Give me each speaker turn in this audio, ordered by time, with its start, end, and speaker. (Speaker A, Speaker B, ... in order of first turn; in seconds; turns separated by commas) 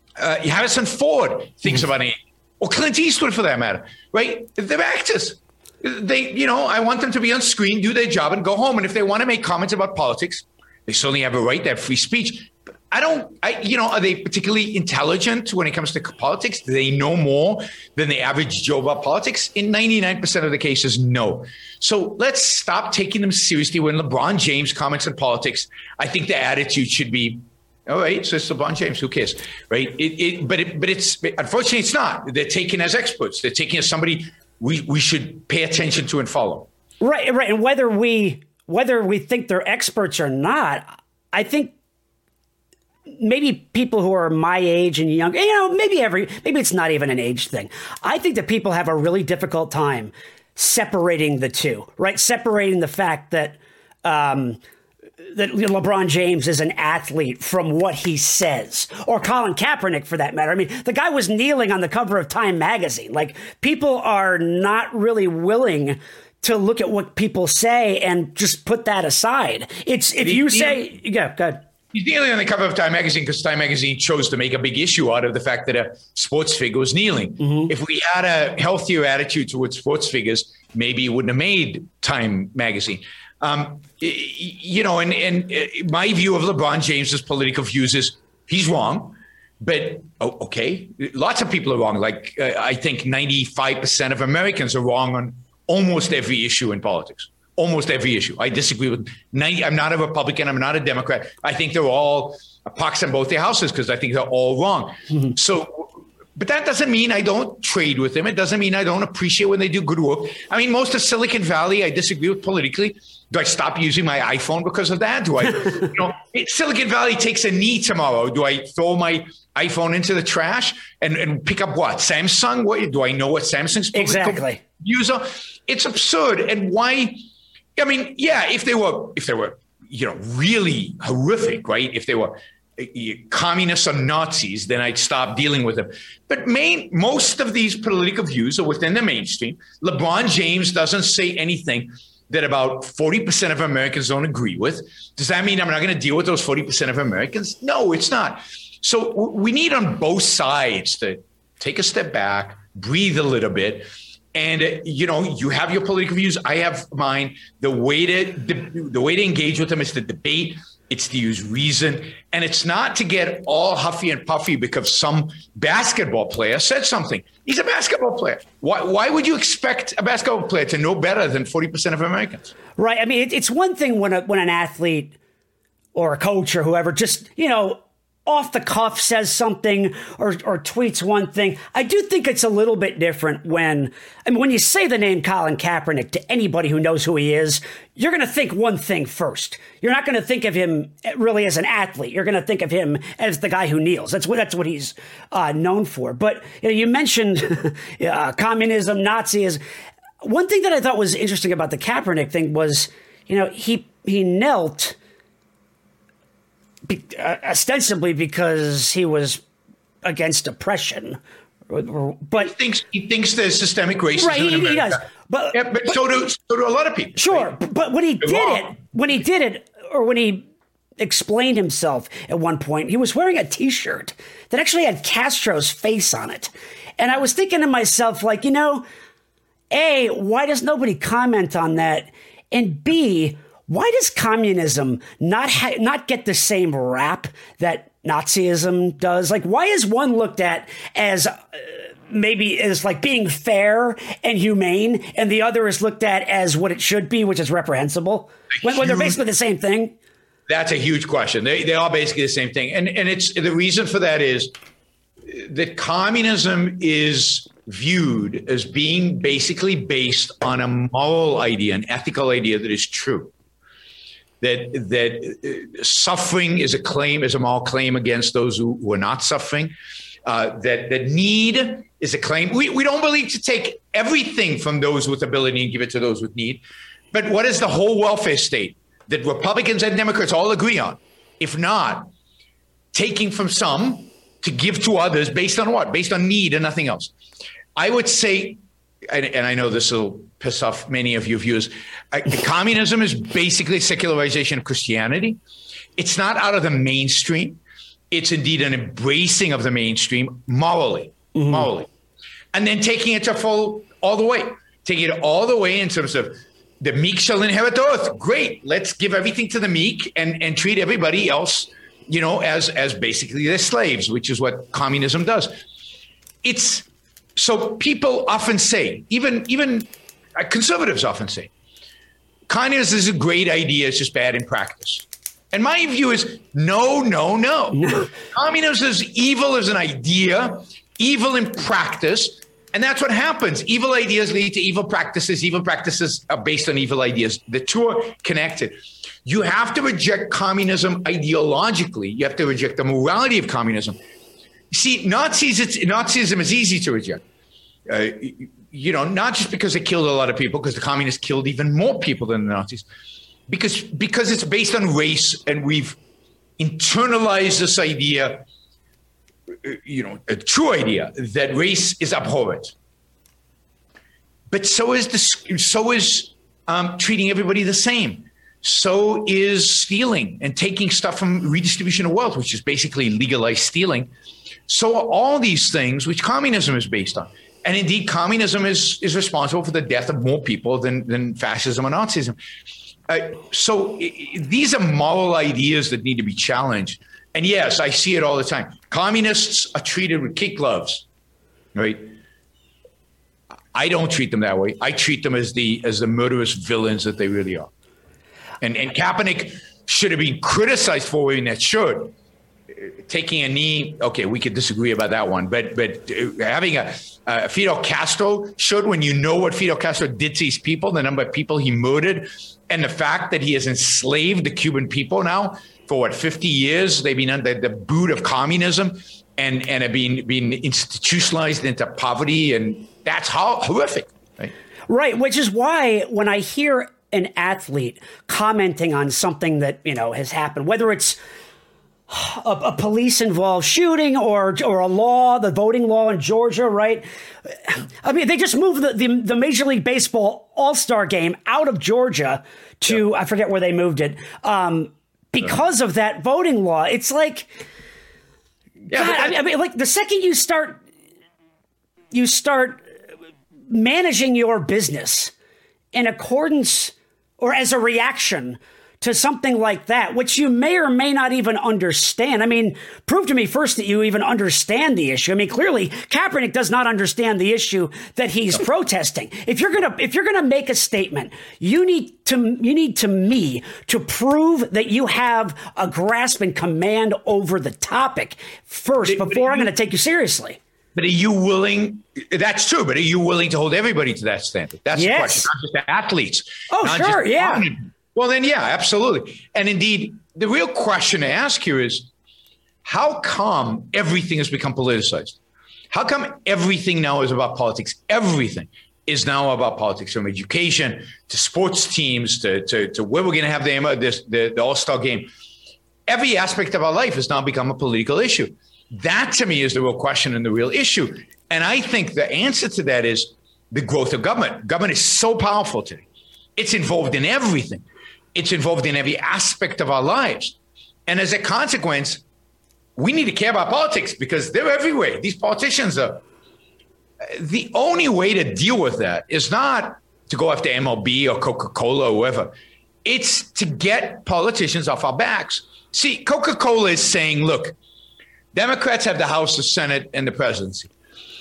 Speaker A: 0.2-36.7, Speaker B: 37.0-41.8, Speaker B: 43.1-54.6, Speaker B: 55.3-71.7, Speaker A: 70.2-70.8, Speaker A: 71.9-127.2, Speaker B: 77.4-77.7, Speaker B: 123.9-124.6, Speaker A: 127.8-172.5, Speaker B: 172.8-175.2, Speaker B: 175.9-199.6, Speaker B: 200.2-205.0, Speaker B: 206.9-209.4, Speaker B: 210.0-212.5, Speaker A: 212.4-215.0, Speaker B: 214.2-215.7, Speaker A: 215.5-217.6, Speaker B: 217.2-220.5, Speaker A: 218.2-218.7, Speaker B: 221.0-228.9, Speaker B: 229.7-249.9, Speaker A: 248.7-249.2, Speaker A: 250.5-254.5, Speaker A: 255.3-263.3, Speaker A: 264.4-269.8, Speaker A: 270.3-282.1, Speaker A: 282.9-287.1, Speaker A: 287.8-295.4, Speaker A: 296.0-297.6, Speaker A: 298.1-301.9, Speaker B: 301.4-301.6, Speaker A: 302.5-315.6, Speaker A: 316.4-321.5, Speaker A: 322.5-344.0, Speaker A: 344.7-347.2, Speaker A: 347.9-352.9, Speaker A: 353.5-356.0, Speaker A: 356.6-358.5, Speaker A: 359.6-362.7, Speaker A: 364.5-374.1, Speaker A: 374.7-382.4, Speaker A: 383.1-391.1, Speaker A: 391.8-392.2, Speaker A: 393.7-397.7, Speaker A: 398.6-402.1, Speaker A: 402.7-424.5, Speaker B: 424.9-431.2, Speaker B: 432.1-447.6, Speaker A: 448.9-449.4, Speaker B: 448.9-450.8, Speaker B: 452.1-452.8, Speaker B: 453.7-455.3, Speaker B: 455.9-480.6, Speaker A: 479.1-479.7, Speaker A: 480.9-492.1, Speaker B: 484.9-485.5, Speaker B: 486.7-487.7, Speaker A: 492.9-495.4, Speaker A: 495.9-505.3, Speaker A: 506.1-516.0, Speaker A: 516.6-520.6, Speaker A: 521.1-522.2, Speaker A: 523.0-526.2, Speaker A: 527.2-537.8, Speaker A: 538.5-540.9